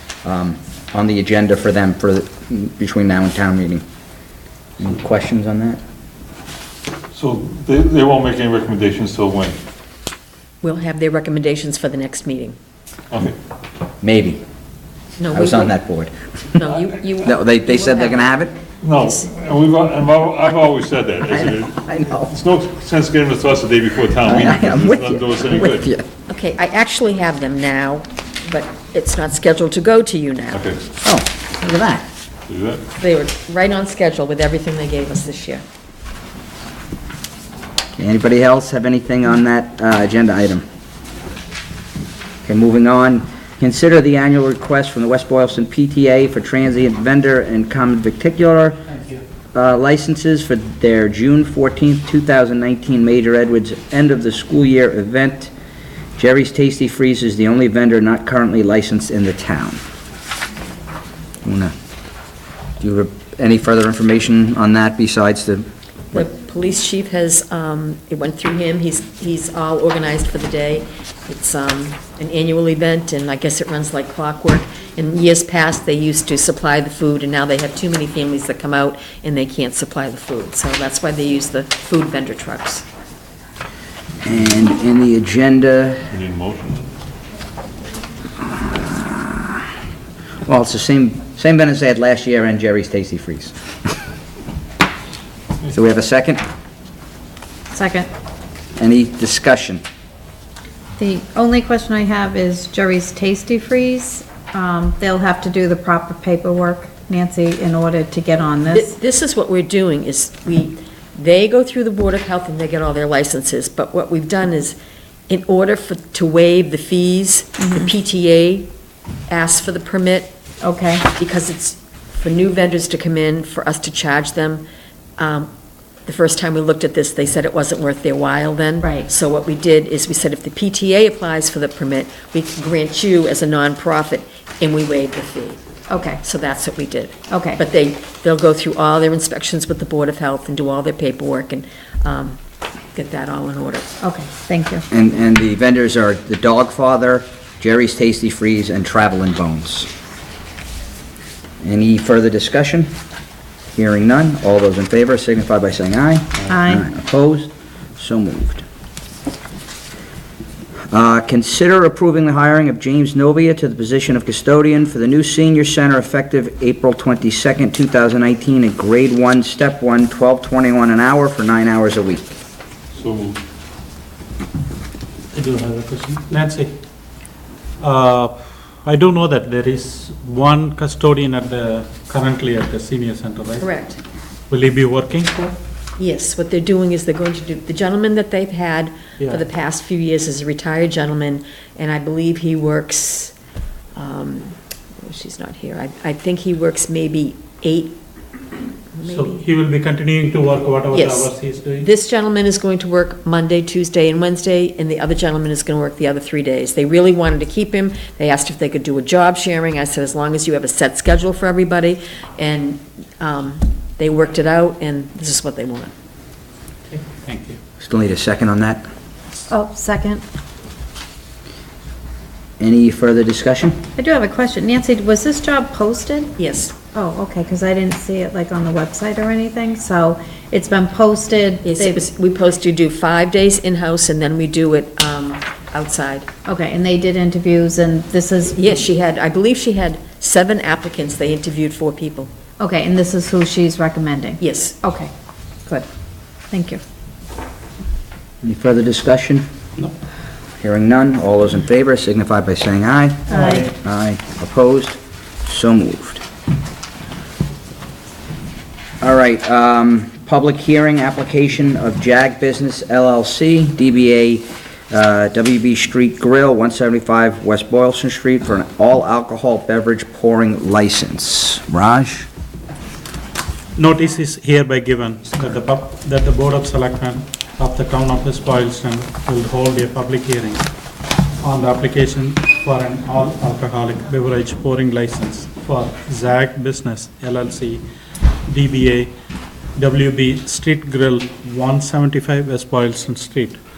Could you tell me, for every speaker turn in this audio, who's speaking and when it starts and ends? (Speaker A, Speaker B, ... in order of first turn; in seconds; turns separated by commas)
Speaker A: 0.2-3.8, Speaker A: 4.8-5.8, Speaker B: 7.1-9.6, Speaker C: 10.6-12.6, Speaker B: 13.1-13.3, Speaker A: 14.0-14.4, Speaker C: 15.2-15.7, Speaker A: 15.3-16.1, Speaker C: 16.6-18.3, Speaker A: 17.2-18.5, Speaker B: 18.8-25.9, Speaker A: 21.8-22.3, Speaker A: 24.2-26.1, Speaker C: 26.3-30.6, Speaker B: 30.5-30.8, Speaker A: 31.0-32.0, Speaker B: 32.5-32.8, Speaker C: 33.0-35.6, Speaker A: 38.0-40.6, Speaker A: 42.4-48.8, Speaker A: 49.5-55.5, Speaker A: 56.2-59.8, Speaker A: 61.4-61.7, Speaker A: 62.8-66.2, Speaker C: 66.1-82.8, Speaker A: 84.2-86.0, Speaker B: 86.1-86.9, Speaker A: 88.5-89.6, Speaker A: 90.5-93.5, Speaker A: 95.7-96.4, Speaker D: 97.7-98.1, Speaker A: 98.8-99.8, Speaker D: 101.0-108.9, Speaker C: 108.7-114.8, Speaker C: 115.3-118.7, Speaker C: 119.3-120.3, Speaker D: 120.6-121.1, Speaker C: 121.1-124.6, Speaker C: 125.2-125.5, Speaker C: 126.0-135.6, Speaker D: 128.8-129.1, Speaker D: 135.9-136.2, Speaker C: 136.2-142.4, Speaker D: 137.3-137.6, Speaker C: 142.9-143.9, Speaker D: 144.0-144.8, Speaker A: 144.9-149.9, Speaker A: 151.6-152.9, Speaker A: 153.7-158.7, Speaker D: 156.5-156.8, Speaker A: 160.9-172.3, Speaker B: 172.9-173.4, Speaker E: 175.3-176.7, Speaker E: 177.8-183.7, Speaker C: 183.6-184.0, Speaker E: 184.5-185.5, Speaker C: 186.0-193.3, Speaker C: 193.9-198.0, Speaker C: 198.9-199.4, Speaker E: 199.0-201.8, Speaker C: 200.9-215.9, Speaker E: 216.9-217.6, Speaker A: 217.8-218.9, Speaker D: 219.5-220.2, Speaker A: 222.6-223.8, Speaker D: 224.0-226.3, Speaker C: 226.4-226.7, Speaker D: 226.9-232.0, Speaker C: 231.6-236.3, Speaker D: 236.4-238.6, Speaker C: 238.6-242.3, Speaker D: 242.6-245.1, Speaker C: 244.4-244.8, Speaker D: 246.5-246.8, Speaker A: 248.4-249.5, Speaker A: 250.6-256.2, Speaker A: 259.0-272.3, Speaker E: 273.8-280.6, Speaker E: 281.4-287.8, Speaker E: 288.5-289.1, Speaker E: 289.8-293.6